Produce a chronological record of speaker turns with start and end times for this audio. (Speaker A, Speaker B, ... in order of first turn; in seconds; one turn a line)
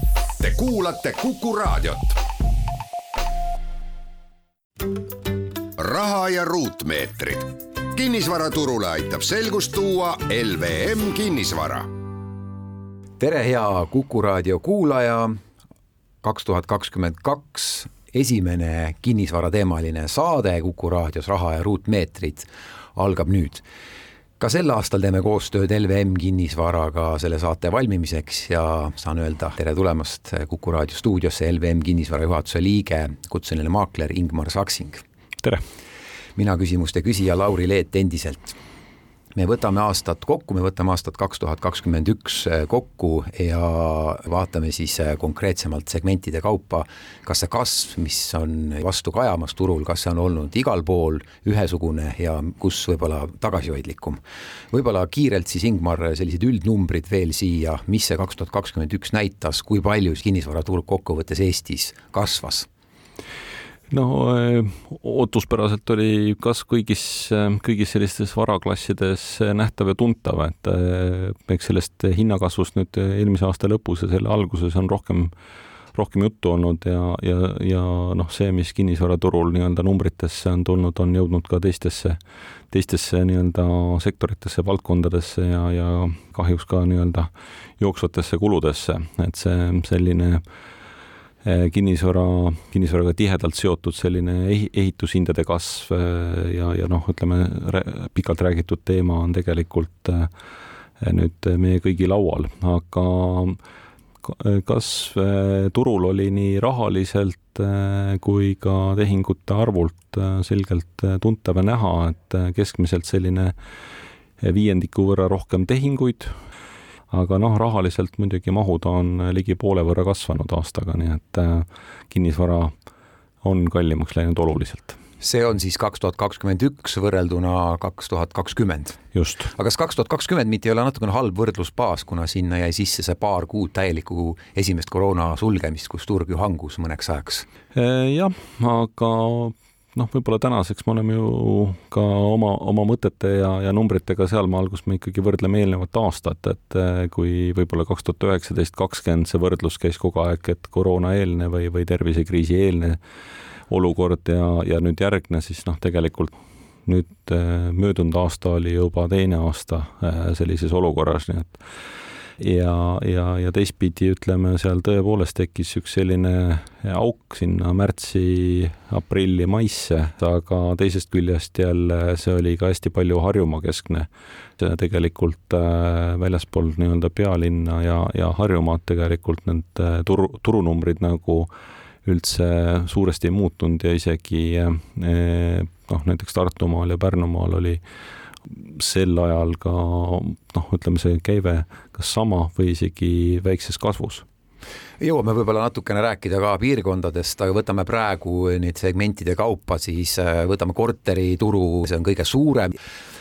Speaker A: 0.4-2.2
Speaker A: 5.8-11.9
Speaker B: 13.2-15.4
Speaker B: 16.2-23.6
Speaker B: 24.4-35.0
Speaker B: 36.4-38.5
Speaker B: 39.3-54.2
Speaker B: 54.7-62.7
Speaker C: 63.9-75.3
Speaker C: 75.9-82.2
Speaker C: 82.7-90.4
Speaker C: 91.4-100.3
Speaker C: 101.0-103.6
Speaker C: 104.2-113.5
Speaker C: 114.4-116.3
Speaker C: 117.1-122.7
Speaker C: 123.4-125.0
Speaker B: 125.2-129.0
Speaker C: 129.1-129.5
Speaker B: 129.5-137.4
Speaker C: 137.7-153.0
Speaker C: 153.7-156.3
Speaker C: 156.8-161.6
Speaker C: 162.4-181.5
Speaker C: 182.0-187.8
Speaker C: 188.5-194.2
Speaker B: 195.0-202.8